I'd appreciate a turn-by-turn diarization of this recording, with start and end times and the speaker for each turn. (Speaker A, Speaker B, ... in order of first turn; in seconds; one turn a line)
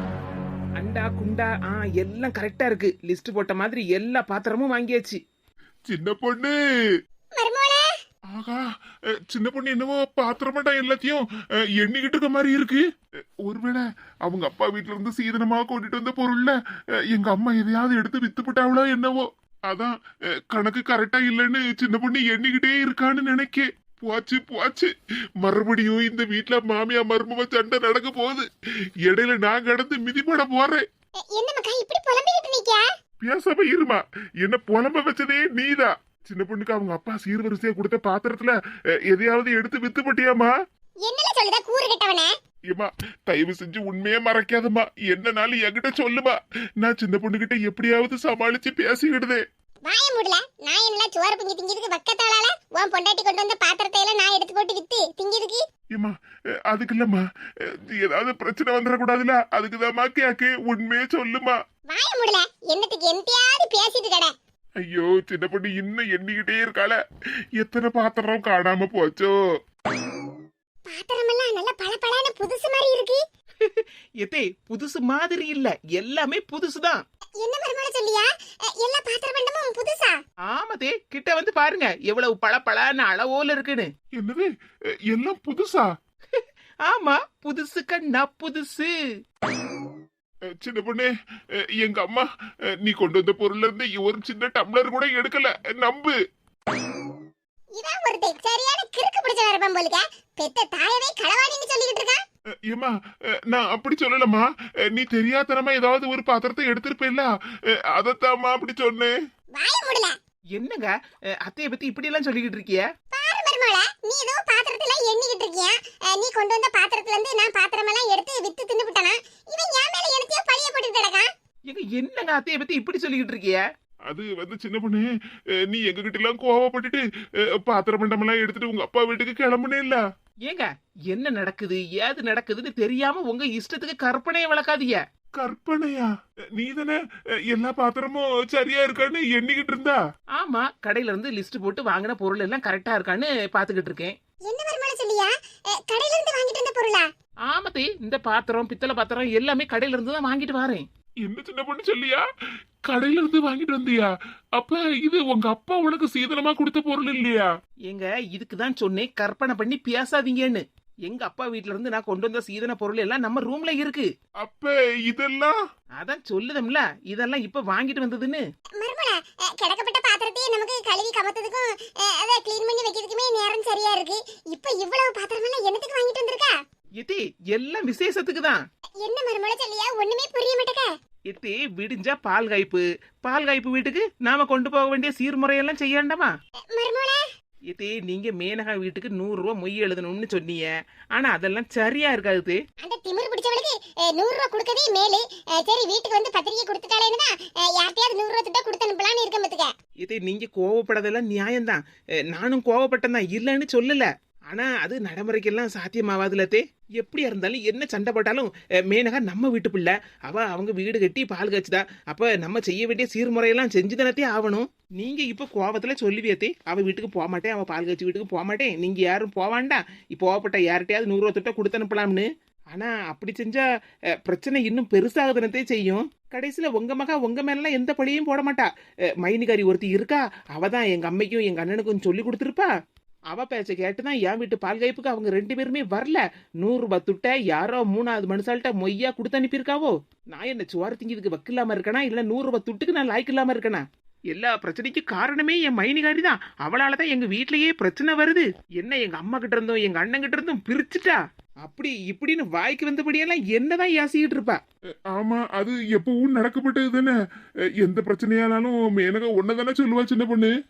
Speaker A: 0.8-5.2
Speaker B: 5.9-6.5
Speaker C: 7.3-7.9
Speaker B: 8.3-8.6
Speaker B: 9.3-11.2
Speaker B: 11.8-12.8
Speaker B: 13.4-16.5
Speaker B: 17.1-19.9
Speaker B: 20.5-24.9
Speaker B: 25.4-28.4
Speaker B: 29.1-30.8
Speaker C: 31.3-32.8
Speaker B: 33.2-38.5
Speaker B: 39.1-40.5
Speaker C: 41.0-42.3
Speaker B: 42.7-49.4
Speaker C: 49.8-55.6
Speaker B: 56.7-57.2
Speaker B: 57.8-61.5
Speaker C: 61.9-64.3
Speaker B: 64.8-67.0
Speaker B: 67.6-69.3
Speaker C: 70.9-73.2
Speaker A: 73.6-77.0
Speaker C: 77.4-80.2
Speaker A: 80.5-83.9
Speaker B: 84.2-84.5
Speaker B: 85.1-85.9
Speaker A: 86.3-88.9
Speaker B: 90.6-91.1
Speaker B: 91.8-92.2
Speaker B: 92.8-96.1
Speaker C: 97.7-102.2
Speaker B: 102.7-102.9
Speaker B: 103.5-107.3
Speaker B: 107.9-109.1
Speaker C: 109.5-110.1
Speaker A: 110.5-110.9
Speaker A: 111.4-112.8
Speaker C: 113.1-121.3
Speaker A: 121.7-123.6
Speaker B: 124.1-125.0
Speaker B: 125.7-127.0
Speaker B: 127.6-130.0
Speaker A: 130.4-135.0
Speaker B: 135.4-137.0
Speaker B: 137.5-140.0
Speaker A: 140.4-144.1
Speaker C: 144.5-147.1
Speaker A: 147.5-150.8
Speaker B: 151.2-152.2
Speaker B: 152.9-157.5
Speaker A: 157.9-164.1
Speaker B: 164.4-165.6
Speaker A: 166.0-168.4
Speaker C: 168.8-176.6
Speaker A: 177.0-178.6
Speaker C: 179.0-180.9
Speaker A: 181.3-186.3
Speaker C: 186.7-187.2
Speaker A: 187.7-192.6
Speaker C: 192.8-199.7
Speaker A: 200.0-201.8
Speaker A: 202.3-223.6
Speaker A: 224.2-228.7
Speaker A: 229.2-232.7
Speaker A: 233.3-254.6
Speaker B: 255.1-257.1
Speaker B: 257.8-260.5